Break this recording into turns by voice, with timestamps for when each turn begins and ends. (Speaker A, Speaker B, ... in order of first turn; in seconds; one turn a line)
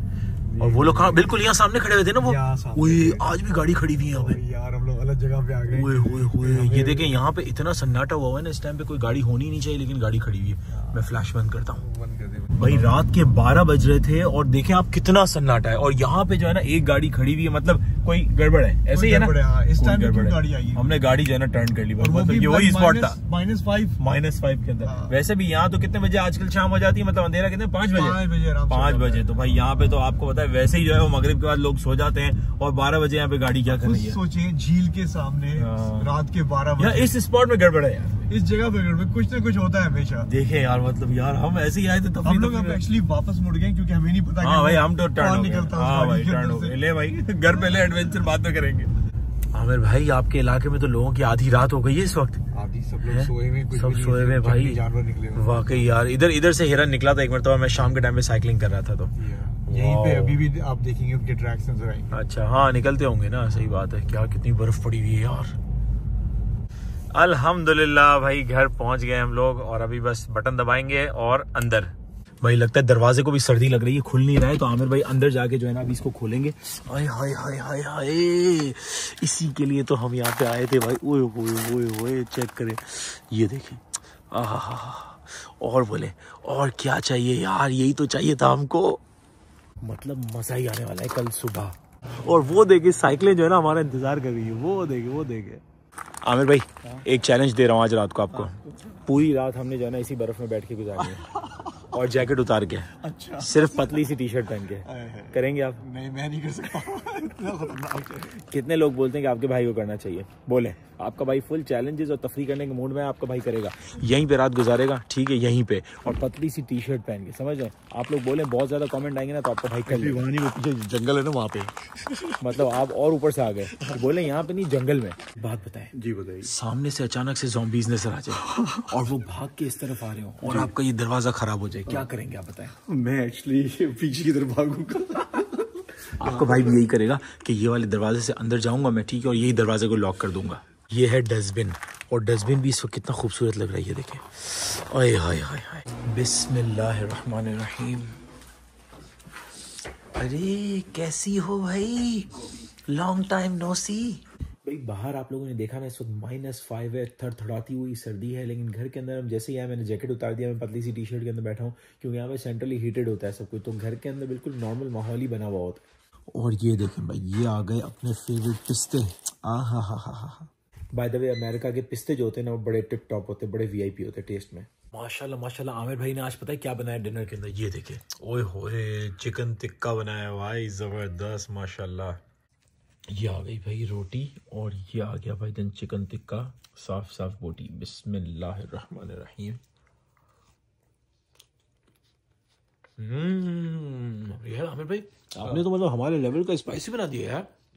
Speaker A: 0.5-1.4
Speaker B: 0.6-4.4
Speaker A: 2.1-3.3
Speaker A: 4.0-7.2
Speaker B: 5.7-11.8
Speaker A: 10.7-11.0
Speaker A: 11.8-12.9
Speaker B: 12.6-23.2
Speaker A: 18.9-21.0
Speaker A: 22.0-24.0
Speaker B: 24.0-34.2
Speaker A: 24.8-25.1
Speaker A: 27.9-29.6
Speaker A: 33.7-37.1
Speaker B: 35.6-36.1
Speaker B: 36.8-38.3
Speaker A: 38.3-40.3
Speaker B: 40.3-42.8
Speaker A: 42.2-46.8
Speaker B: 44.4-48.9
Speaker B: 49.5-52.4
Speaker A: 52.5-55.9
Speaker B: 53.0-54.8
Speaker B: 55.3-59.1
Speaker A: 59.2-62.1
Speaker B: 59.7-60.4
Speaker B: 62.1-65.6
Speaker B: 67.1-89.0
Speaker B: 89.8-95.6
Speaker B: 96.2-101.3
Speaker A: 101.5-101.8
Speaker B: 101.9-105.8
Speaker A: 103.0-104.1
Speaker A: 104.8-108.4
Speaker B: 108.3-120.2
Speaker A: 119.9-122.4
Speaker B: 122.4-132.8
Speaker A: 126.0-126.5
Speaker A: 128.5-128.8
Speaker A: 132.9-136.7
Speaker B: 136.2-148.2
Speaker B: 150.2-152.3
Speaker B: 152.9-182.2
Speaker B: 183.1-189.6
Speaker B: 193.0-197.5